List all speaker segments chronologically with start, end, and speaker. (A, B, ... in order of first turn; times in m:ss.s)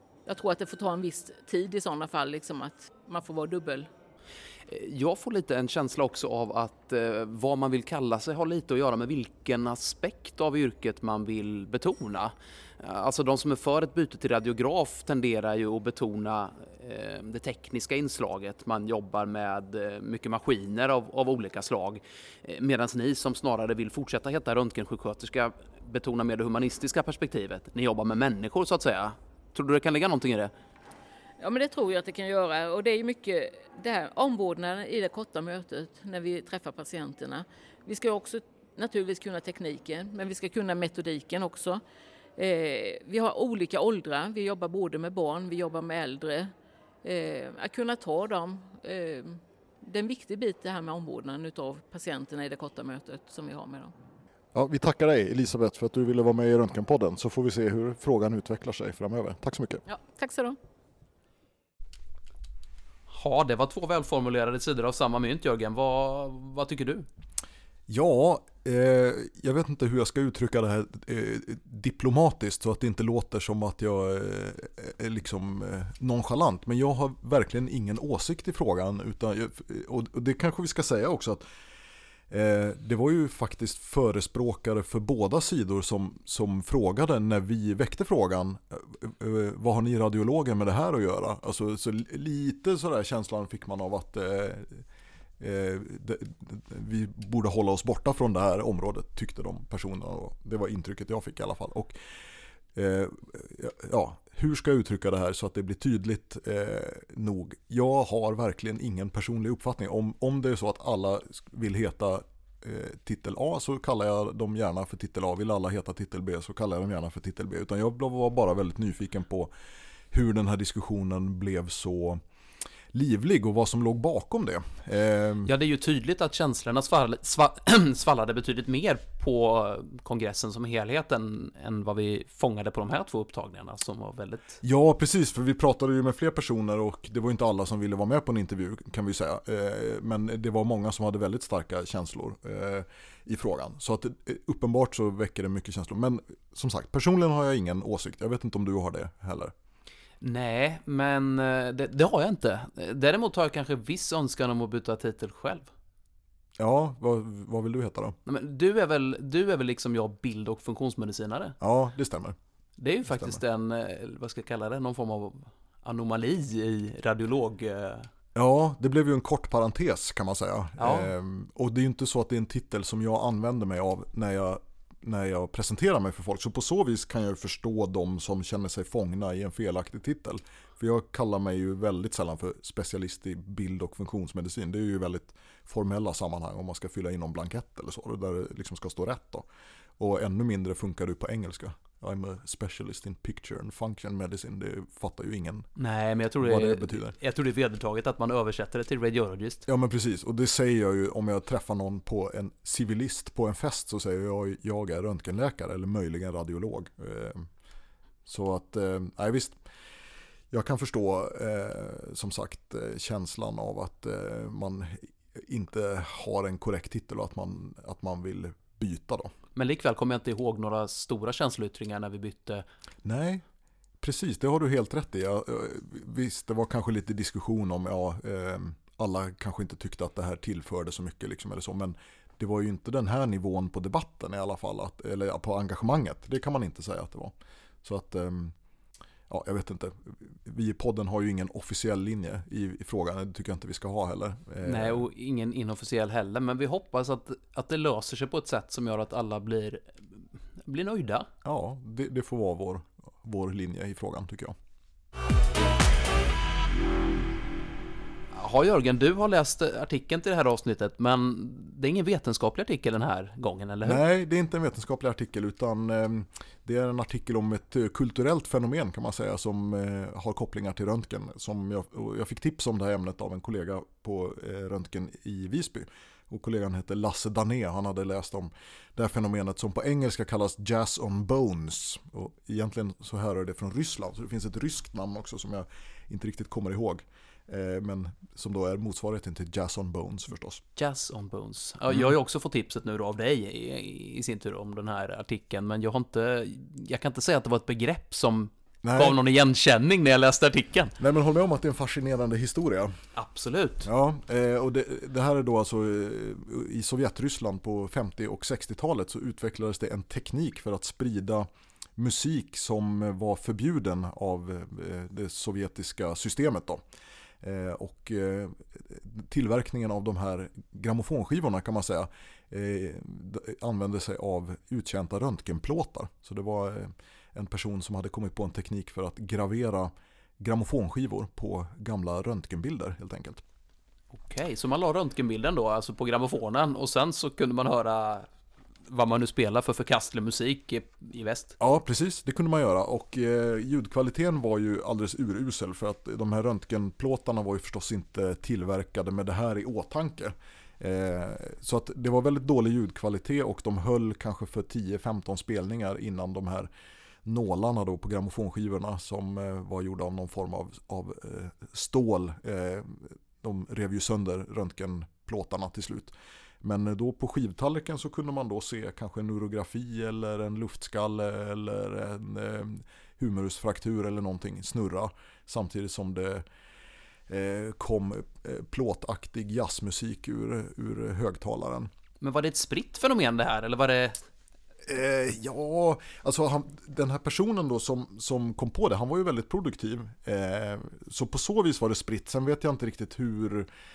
0:00.3-0:03.9 A
0:04.7-0:30.5 B
0:31.4-0:41.8 A
0:42.4-0:46.5 A
0:47.0-0:53.9 A
0:54.6-0:59.8 C
0:59.9-1:00.6 A
1:03.1-1:07.1 B
1:07.9-1:21.4 C
1:22.3-1:34.8 C
1:35.4-1:42.0 C
1:42.8-1:59.5 C
2:00.1-2:02.2 C
2:02.9-2:05.5 C
2:05.5-2:14.6 B
2:14.6-2:29.5 C
2:30.2-2:35.7 B
2:36.6-2:38.2 C
2:38.3-2:41.6 B
2:41.6-2:42.4 C
2:42.8-2:48.1 B
2:43.1-2:43.4 C
2:48.4-3:09.5 C
2:50.8-2:51.1 B
3:10.0-3:15.7 C
3:15.8-3:19.6 B
3:16.4-3:17.2 C
3:19.7-3:27.5 C
3:28.3-3:29.6 C
3:30.5-3:39.3 C
3:39.6-3:42.6 B
3:43.0-3:43.4 C
3:44.0-3:58.6 C
3:59.3-4:05.1 C
4:04.6-4:11.3 B
4:11.4-4:14.6 C
4:18.3-4:24.0 B
4:23.8-4:50.6 C
4:50.8-5:01.0 B
4:58.8-4:59.2 C
5:01.0-5:03.0 C
5:03.2-5:03.9 B
5:03.8-5:16.8 C
5:17.4-5:33.4 C
5:34.1-5:38.3 B
5:38.9-5:41.5 B
5:41.6-5:56.7 C
5:57.2-6:16.4 C
6:17.3-6:21.9 C
6:22.2-6:24.2 B
6:24.9-6:33.7 C